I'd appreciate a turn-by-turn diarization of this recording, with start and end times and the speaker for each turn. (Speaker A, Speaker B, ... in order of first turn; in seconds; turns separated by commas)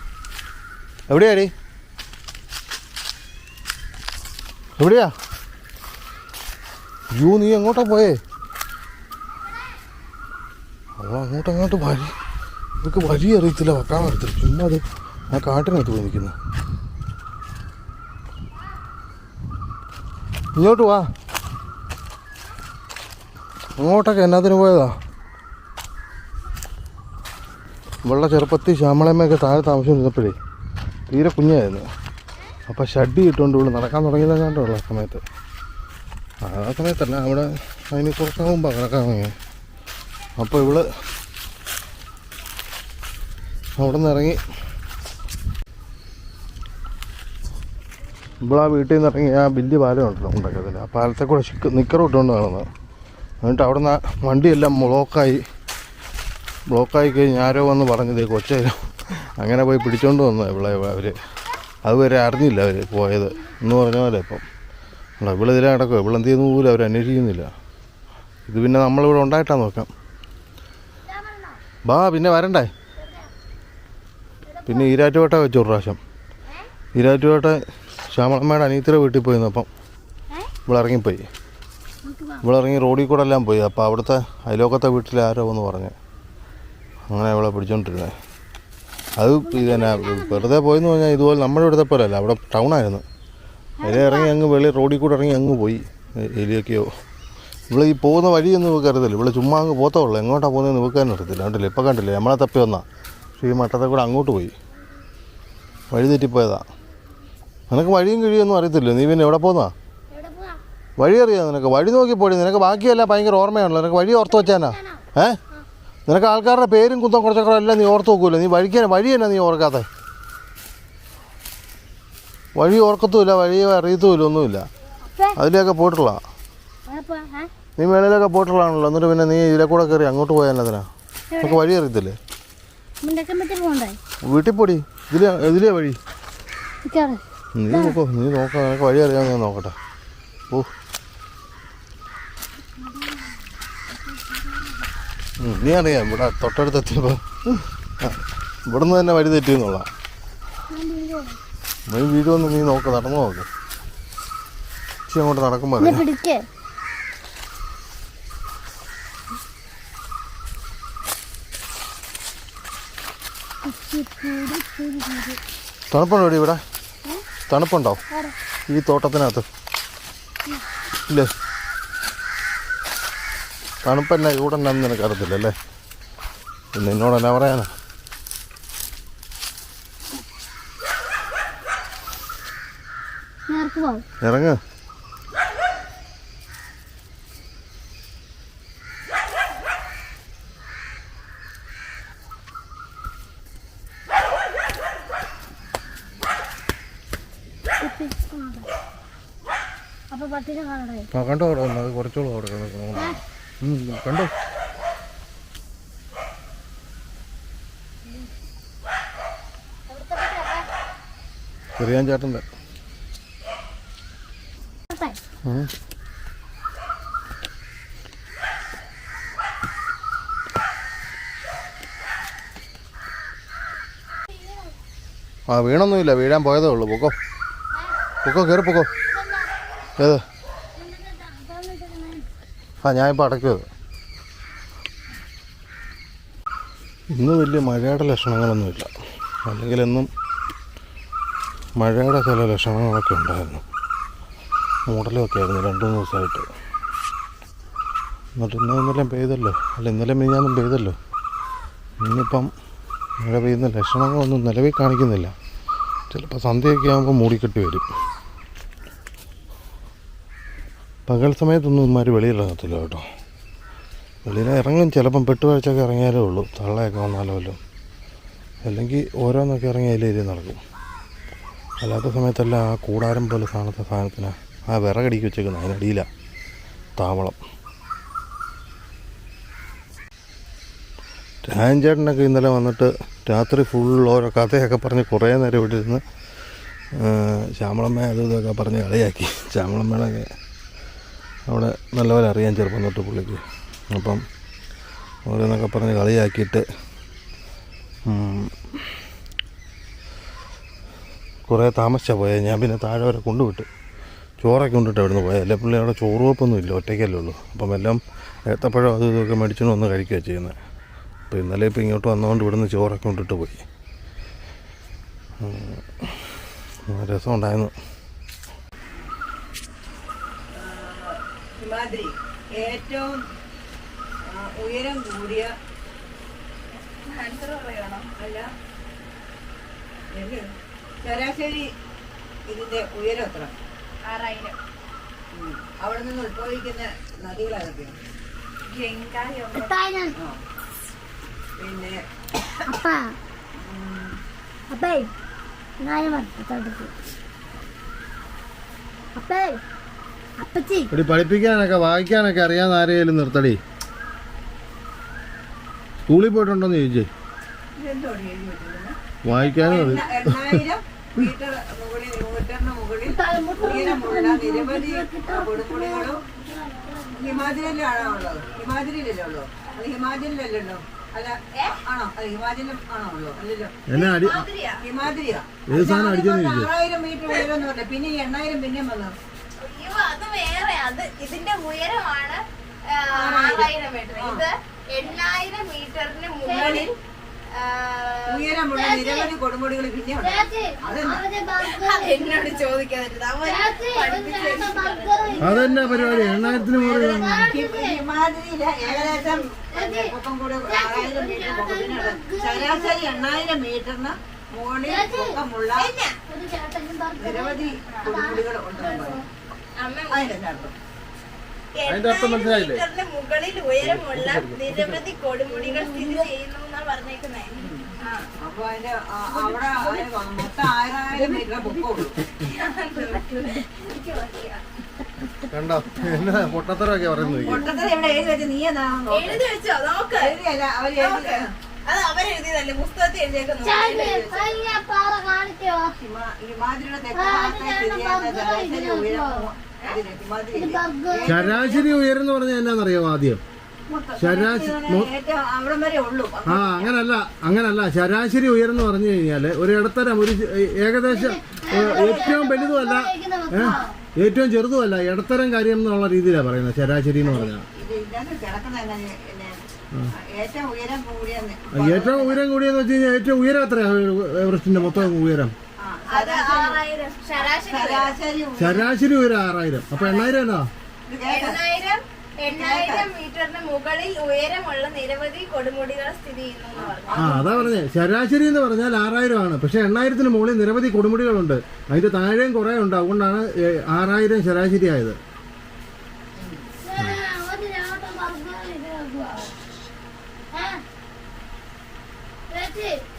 Speaker A: 1.1-1.5, Speaker A: 4.8-5.1, Speaker A: 7.1-8.2, Speaker A: 11.0-12.1, Speaker A: 12.8-16.4, Speaker A: 20.6-21.1, Speaker A: 23.8-25.0, Speaker A: 28.0-30.4, Speaker A: 31.1-31.9, Speaker A: 32.7-35.2, Speaker A: 36.4-39.4, Speaker A: 40.4-40.9, Speaker A: 43.8-44.4, Speaker A: 48.4-52.7, Speaker A: 53.4-55.4, Speaker A: 56.7-61.2, Speaker A: 61.9-64.4, Speaker A: 65.2-67.5, Speaker A: 68.5-69.9, Speaker B: 71.1-71.6, Speaker A: 71.8-72.7, Speaker B: 73.0-73.3, Speaker B: 74.5-74.9, Speaker A: 74.7-76.0, Speaker A: 76.9-79.7, Speaker A: 80.7-81.2, Speaker B: 82.0-82.5, Speaker A: 82.4-86.0, Speaker A: 87.1-88.2, Speaker A: 89.2-93.0, Speaker B: 89.4-90.5, Speaker B: 93.8-94.3, Speaker A: 93.8-96.9, Speaker A: 97.7-102.8, Speaker A: 103.4-104.5, Speaker A: 105.9-106.7, Speaker A: 107.7-109.7, Speaker B: 110.1-110.6, Speaker A: 111.0-115.4, Speaker B: 114.2-115.7, Speaker A: 116.1-119.9, Speaker A: 122.6-124.7, Speaker B: 125.1-125.4, Speaker A: 125.4-126.2, Speaker B: 126.9-127.5, Speaker A: 127.8-130.9, Speaker B: 131.3-131.6, Speaker A: 131.4-132.2, Speaker B: 133.0-134.0, Speaker A: 134.3-136.0, Speaker B: 136.8-138.0, Speaker A: 137.6-139.8, Speaker A: 145.4-149.9, Speaker B: 150.7-151.4, Speaker A: 151.9-153.5, Speaker A: 155.1-156.1, Speaker B: 155.8-156.4, Speaker B: 163.7-165.4, Speaker A: 165.9-166.6, Speaker A: 167.5-168.0, Speaker A: 168.7-169.5, Speaker A: 171.1-171.3, Speaker A: 173.8-175.6, Speaker A: 176.7-177.7, Speaker B: 183.5-184.0, Speaker A: 184.2-184.6, Speaker B: 197.8-198.7, Speaker B: 200.1-201.1, Speaker A: 201.1-204.3, Speaker B: 209.9-210.7, Speaker A: 211.8-212.4, Speaker B: 214.9-215.2, Speaker A: 215.4-215.7, Speaker B: 224.3-224.7, Speaker A: 225.5-227.2, Speaker A: 228.2-228.9, Speaker B: 228.8-229.6, Speaker A: 230.0-230.2, Speaker B: 230.8-232.3, Speaker A: 232.8-233.7, Speaker A: 237.1-238.9, Speaker A: 239.4-240.1, Speaker A: 241.8-243.6, Speaker A: 244.9-246.5, Speaker A: 248.4-251.0, Speaker A: 252.0-252.5, Speaker A: 253.2-255.3, Speaker A: 256.1-257.9, Speaker A: 261.1-263.1, Speaker A: 264.2-267.6, Speaker A: 268.6-270.6, Speaker A: 271.8-276.1, Speaker A: 277.0-277.4, Speaker A: 281.4-286.0, Speaker A: 286.9-290.3, Speaker A: 291.5-294.2, Speaker A: 295.3-296.7, Speaker A: 298.1-299.0, Speaker A: 301.5-303.7, Speaker A: 304.4-310.6, Speaker A: 311.3-313.6, Speaker A: 315.4-316.3, Speaker A: 316.9-317.7, Speaker C: 320.5-323.2, Speaker C: 324.2-325.5, Speaker D: 327.1-328.1, Speaker C: 328.2-328.5, Speaker C: 330.1-330.5, Speaker C: 331.0-331.7, Speaker C: 332.5-333.6, Speaker D: 334.1-334.6, Speaker C: 335.3-337.9, Speaker D: 338.7-339.7, Speaker B: 339.5-340.1, Speaker C: 341.6-342.0, Speaker B: 342.7-343.0, Speaker C: 343.6-344.2, Speaker B: 344.7-345.1, Speaker B: 345.8-346.9, Speaker B: 349.1-349.6, Speaker B: 350.4-350.9, Speaker A: 350.9-353.6, Speaker A: 356.1-357.1, Speaker C: 357.8-358.9, Speaker A: 359.2-360.6, Speaker C: 359.6-366.2, Speaker B: 363.1-368.3, Speaker C: 367.1-373.8, Speaker A: 373.9-374.5, Speaker D: 373.9-374.9, Speaker C: 374.8-379.1, Speaker A: 375.7-376.7, Speaker D: 379.6-386.9, Speaker C: 383.1-384.4, Speaker B: 386.4-386.9, Speaker C: 386.4-386.9, Speaker D: 387.5-389.3, Speaker C: 388.3-391.2, Speaker B: 390.2-392.7, Speaker D: 391.6-395.6, Speaker B: 393.4-396.4, Speaker A: 395.4-397.5, Speaker C: 395.9-405.9, Speaker B: 397.1-398.0, Speaker B: 398.9-400.1, Speaker B: 400.7-403.4, Speaker B: 404.9-405.4, Speaker D: 405.8-406.1, Speaker B: 406.3-409.2, Speaker C: 407.2-409.3, Speaker D: 409.8-410.3, Speaker C: 410.1-410.8, Speaker D: 411.7-418.3, Speaker A: 411.9-412.8, Speaker A: 413.8-415.0, Speaker C: 415.7-416.2, Speaker C: 417.6-417.9, Speaker C: 418.4-422.2, Speaker D: 422.4-424.6, Speaker B: 423.0-423.6, Speaker A: 425.5-427.7, Speaker B: 425.9-426.4, Speaker B: 427.2-427.9, Speaker C: 427.4-429.5, Speaker D: 429.1-430.4, Speaker C: 430.1-431.5, Speaker D: 431.0-434.4, Speaker B: 433.6-435.9, Speaker C: 433.6-434.5, Speaker C: 436.0-441.9, Speaker B: 437.1-439.5, Speaker B: 440.5-441.4, Speaker A: 441.3-443.4, Speaker C: 443.9-446.9, Speaker A: 444.2-445.1, Speaker A: 446.5-457.6, Speaker B: 451.1-453.9, Speaker C: 451.7-452.4, Speaker C: 457.2-462.4, Speaker A: 461.7-465.6, Speaker C: 465.8-466.8, Speaker D: 466.1-468.2, Speaker C: 467.4-468.9, Speaker A: 468.6-470.7, Speaker C: 471.1-471.6, Speaker D: 471.2-477.5, Speaker C: 472.5-473.1, Speaker C: 476.7-477.7, Speaker A: 477.1-485.2, Speaker B: 486.8-489.5, Speaker B: 490.5-490.8, Speaker B: 492.5-493.0